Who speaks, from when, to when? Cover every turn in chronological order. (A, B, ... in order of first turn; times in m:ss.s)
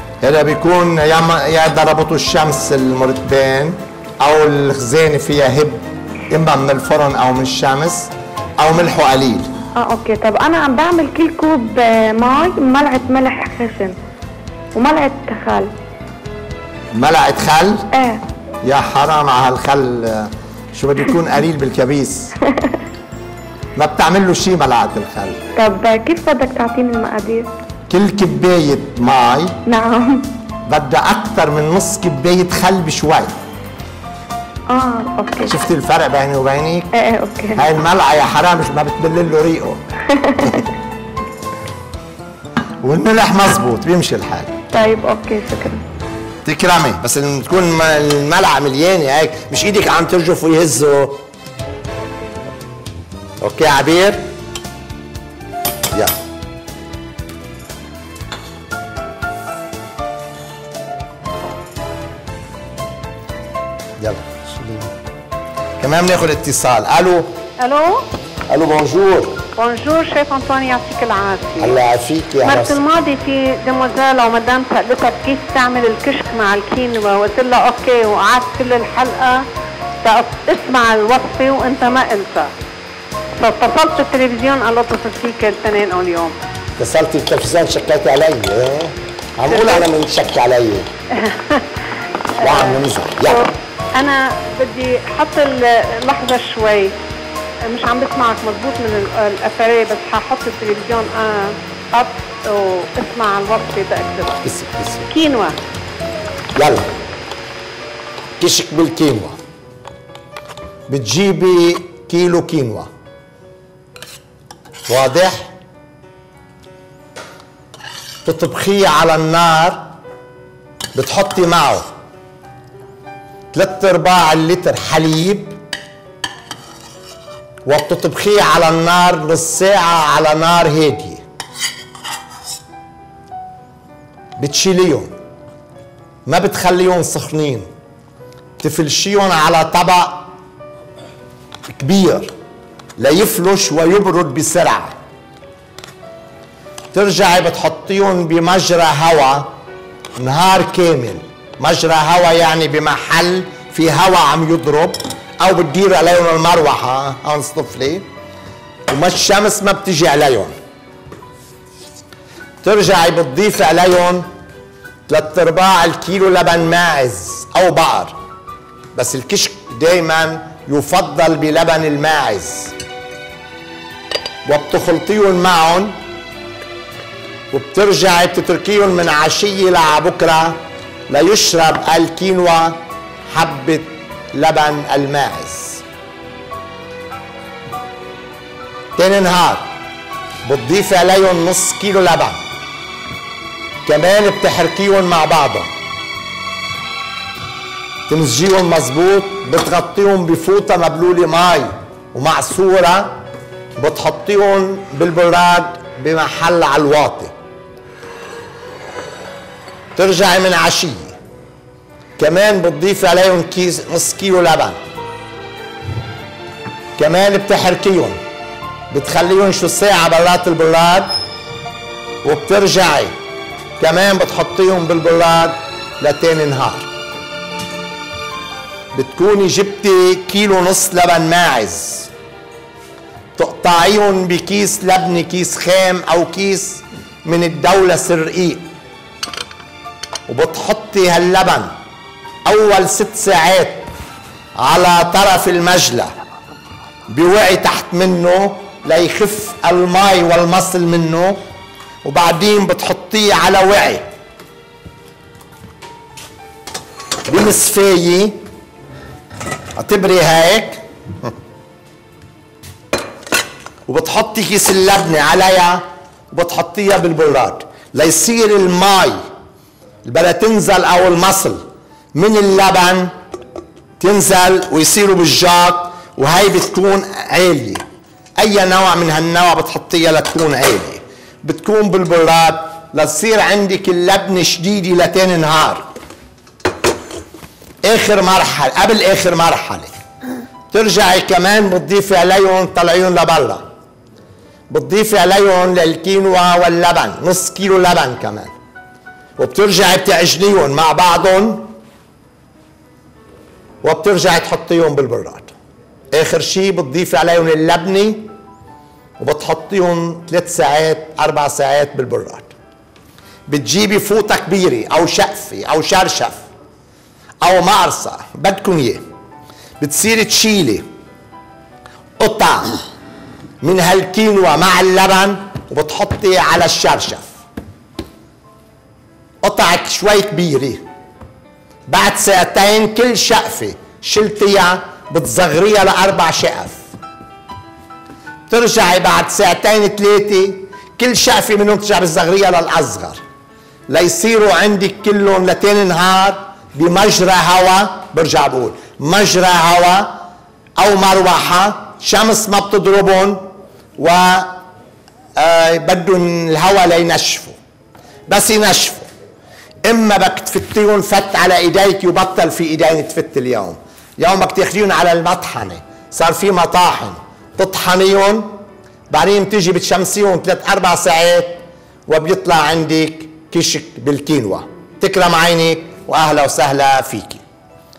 0:00.2-0:09.5 A
0:09.8-0:14.0 B
0:14.8-0:15.7 B
0:16.9-0:17.8 A
0:17.9-0:18.2 B
0:18.6-0:22.3 A
0:23.8-0:25.4 A
0:25.6-0:27.5 B
0:27.9-0:29.6 A
0:29.7-0:30.3 B
0:30.7-0:33.4 A
0:34.7-0:35.6 B
0:35.5-0:36.9 A
0:37.0-0:37.7 B
0:37.6-0:39.8 A
0:40.1-0:40.6 B
0:42.8-0:44.5 A
0:44.7-0:45.8 B
0:46.4-0:51.2 A
0:53.4-0:54.3 A
1:04.0-1:04.9 A
1:05.8-1:07.3 A
1:07.6-1:08.0 C
1:08.5-1:09.4 A
1:09.6-1:11.8 C
1:11.6-1:12.8 A
1:12.4-1:19.4 C
1:20.0-1:22.5 C
1:23.4-1:26.4 C
1:26.8-1:30.9 A
1:29.5-1:29.8 C
1:31.2-1:31.6 C
1:32.4-1:33.5 A
1:32.4-1:36.9 C
1:37.7-1:44.4 C
1:44.4-1:45.1 A
1:45.1-1:45.6 C
1:46.6-1:46.9 A
1:48.4-1:49.4 A
1:50.9-1:52.9 A
1:54.9-1:55.5 A
1:58.2-1:59.9 A
2:01.0-2:01.9 A
2:03.5-2:05.6 A
2:07.7-2:11.2 A
2:14.4-2:15.2 A
2:16.3-2:17.7 A
2:18.6-2:20.3 A
2:21.7-2:22.3 A
2:23.0-2:25.0 A
2:26.9-2:29.5 A
2:30.2-2:38.1 A
2:38.9-2:40.6 A
2:42.6-2:44.3 A
2:45.1-2:48.2 A
2:49.0-2:52.7 A
2:54.5-2:56.0 A
2:57.5-3:05.8 A
3:09.0-3:09.7 A
3:10.4-3:12.4 A
3:13.8-3:15.7 A
3:18.1-3:23.2 A
3:23.8-3:27.3 A
3:30.0-3:31.2 A
3:32.2-3:34.8 A
3:37.0-3:38.2 A
3:38.9-3:41.2 A
3:42.2-3:43.1 A
3:43.8-3:46.9 A
3:48.9-3:52.1 A
3:53.4-3:58.7 A
4:00.3-4:01.7 A
4:02.5-4:03.9 A
4:04.6-4:06.1 A
4:07.1-4:11.4 A
4:12.0-4:14.1 A
4:17.3-4:18.4 A
4:19.8-4:21.3 A
4:23.9-4:29.2 A
4:30.0-4:33.1 A
4:34.0-4:37.8 A
4:38.4-4:45.9 A
4:47.8-4:50.0 A
4:50.7-4:53.7 A
4:54.7-4:58.5 A
4:59.4-5:01.7 A
5:03.8-5:05.5 A
5:06.1-5:08.3 A
5:09.2-5:12.5 A
5:13.5-5:16.4 A
5:17.4-5:19.0 A
5:19.8-5:20.9 A
5:22.2-5:22.8 A
5:23.6-5:27.3 A
5:29.4-5:30.8 A
5:31.9-5:36.8 A
5:38.5-5:43.2 A
5:43.9-5:50.2 A
5:50.8-5:54.6 A
5:55.4-5:57.6 A
5:58.3-5:59.1 A
5:59.8-6:17.4 A